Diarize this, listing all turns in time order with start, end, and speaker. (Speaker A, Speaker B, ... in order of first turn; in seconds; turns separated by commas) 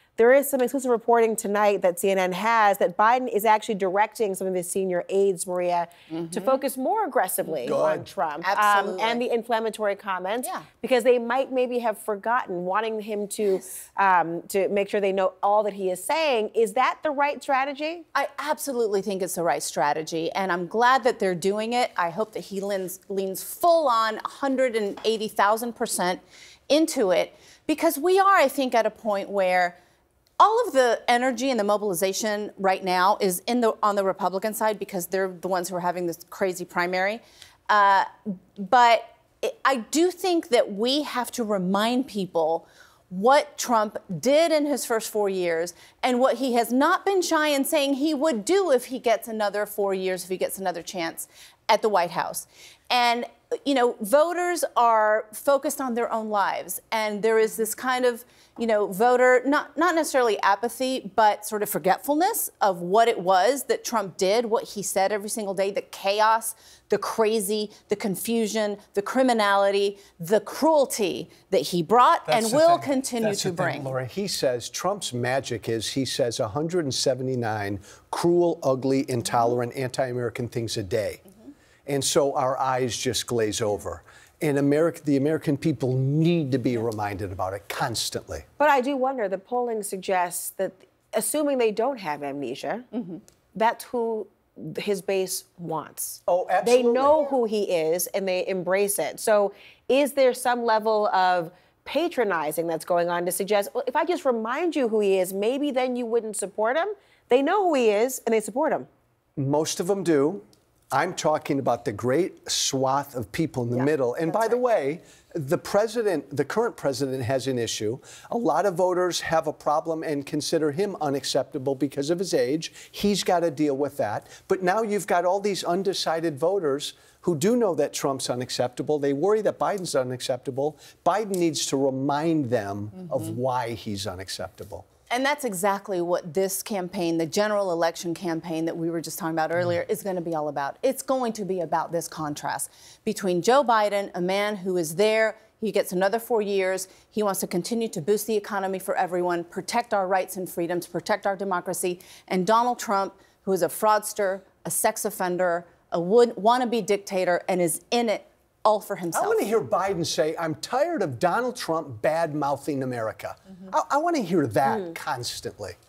Speaker A: 0.2-18.0, Speaker B: 6.1-6.5, Speaker C: 7.6-8.1, Speaker B: 8.4-9.2, Speaker B: 18.1-29.8, Speaker B: 30.4-73.9, Speaker C: 72.3-81.2, Speaker C: 81.8-88.5, Speaker A: 88.6-92.9, Speaker A: 93.5-108.9, Speaker C: 96.3-97.2, Speaker C: 109.4-134.8, Speaker B: 135.1-159.5, Speaker C: 159.1-165.7